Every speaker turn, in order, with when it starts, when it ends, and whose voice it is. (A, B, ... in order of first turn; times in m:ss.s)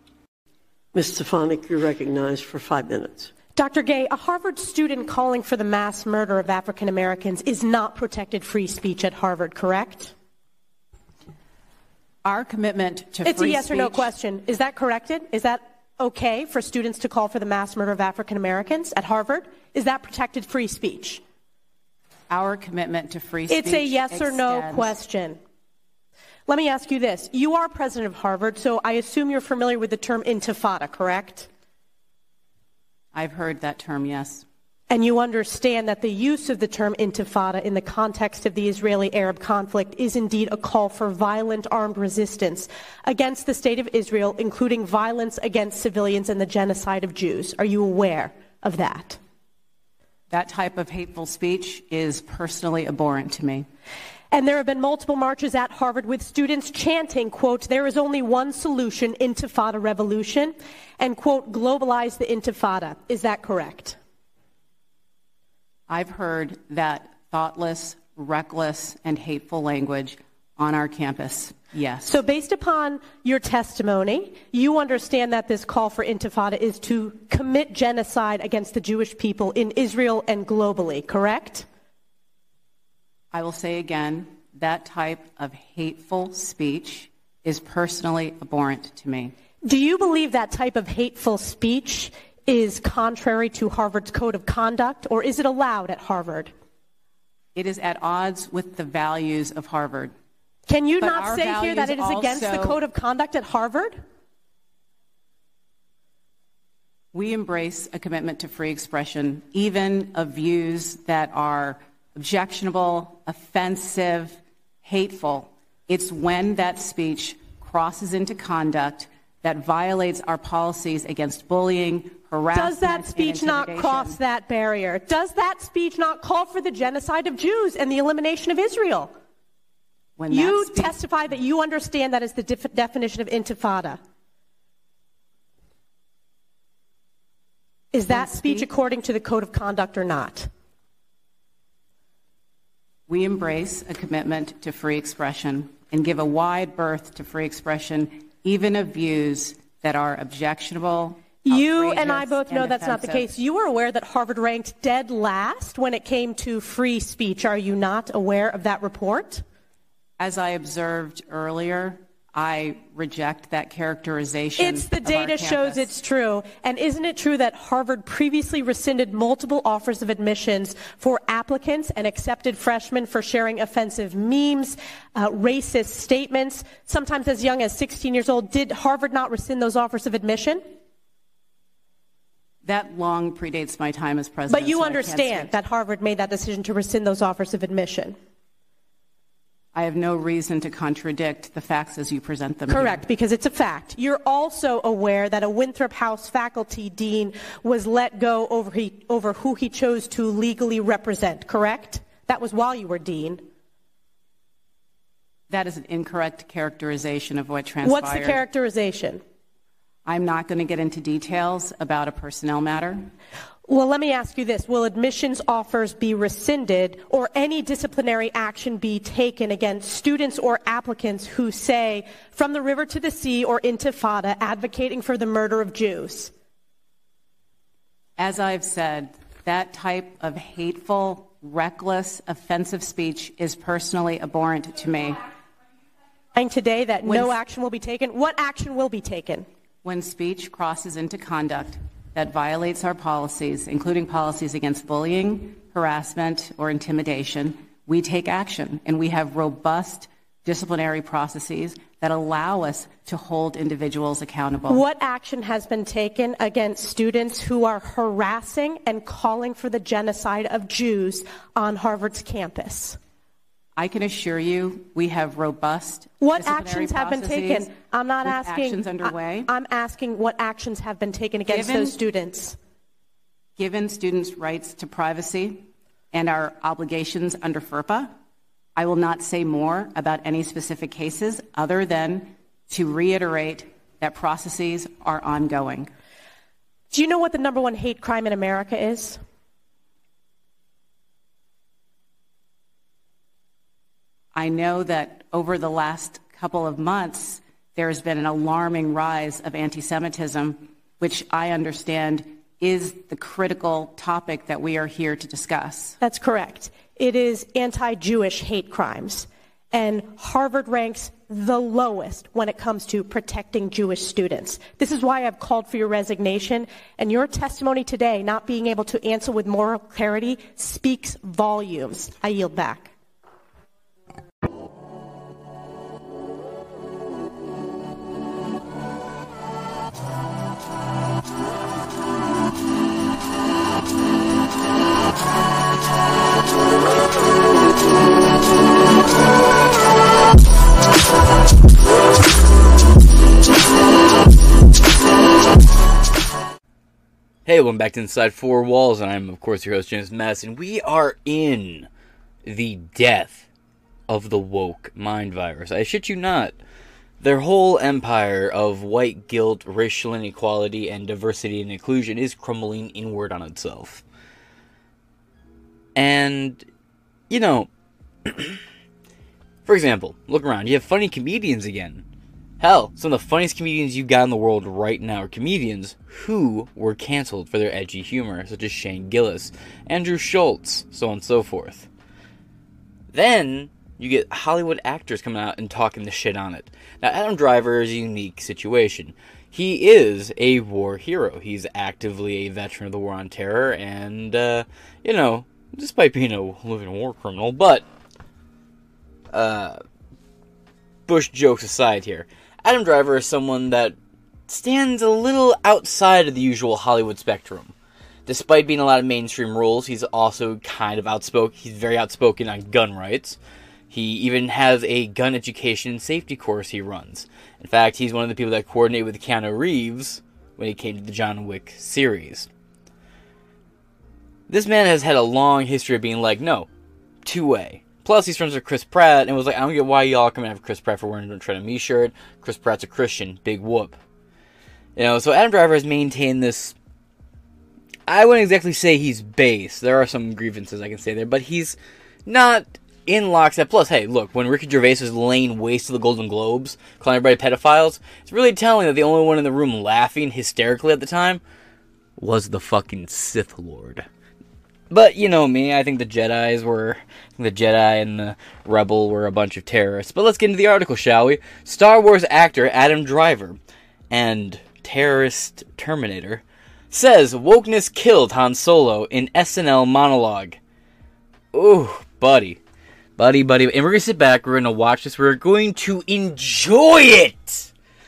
0:00.9-0:03.4 A
0:03.5-0:10.1 B
0:12.2-0:14.1 C
0:13.2-0:21.2 B
0:22.3-0:25.0 C
0:23.5-0:25.4 B
0:26.5-0:31.5 B
0:33.1-0:34.4 C
0:34.9-0:49.2 B
0:50.3-0:53.7 C
0:54.3-1:04.0 B
1:05.9-1:12.2 C
1:12.0-1:21.7 B
1:23.3-1:29.3 C
1:29.7-1:36.5 B
1:37.6-1:40.1 C
1:40.7-1:44.0 B
1:41.0-1:42.8 C
1:47.1-2:04.2 C
2:02.5-2:09.1 B
2:10.2-2:11.0 C
2:10.3-2:14.0 B
2:17.9-2:20.5 B
2:18.1-2:18.7 C
2:23.1-2:33.4 C
2:31.5-2:39.4 B
2:40.2-2:46.0 C
2:44.6-3:00.6 B
3:02.6-3:05.6 C
3:04.5-3:08.2 B
3:09.7-3:13.1 C
3:12.7-3:23.4 B
3:25.5-3:28.4 C
3:27.8-3:29.2 B
3:30.0-3:33.1 C
3:33.7-3:46.3 B
3:48.2-3:55.2 C
3:56.4-3:59.5 B
3:57.0-3:57.4 C
3:59.8-4:14.8 C
4:14.7-4:23.0 B
4:23.8-4:29.5 C
4:26.2-4:32.6 B
4:31.5-4:32.0 C
4:33.6-4:38.1 C
4:38.8-4:45.9 C
4:46.9-4:49.2 B
4:54.4-5:06.0 C
5:06.0-5:22.9 B
5:47.5-5:51.9 D
5:52.4-5:53.5 D
5:54.1-5:56.6 D
5:57.2-6:04.0 D
6:06.0-6:06.7 D
6:07.3-6:07.7 D
6:08.3-6:08.6 D
6:09.7-6:12.0 D
6:12.6-6:21.9 D
6:23.1-6:37.8 D
6:39.3-6:39.8 D
6:41.1-6:44.0 D
6:44.5-6:47.7 D
6:48.3-6:53.4 D
6:53.9-7:02.5 D
7:04.5-7:06.7 D
7:07.2-7:14.0 D
7:15.0-7:16.8 D
7:18.1-7:31.4 D
7:32.2-7:34.1 D
7:34.9-7:43.6 D
7:44.1-7:50.6 D
7:51.5-7:52.6 D
7:53.2-7:57.7 D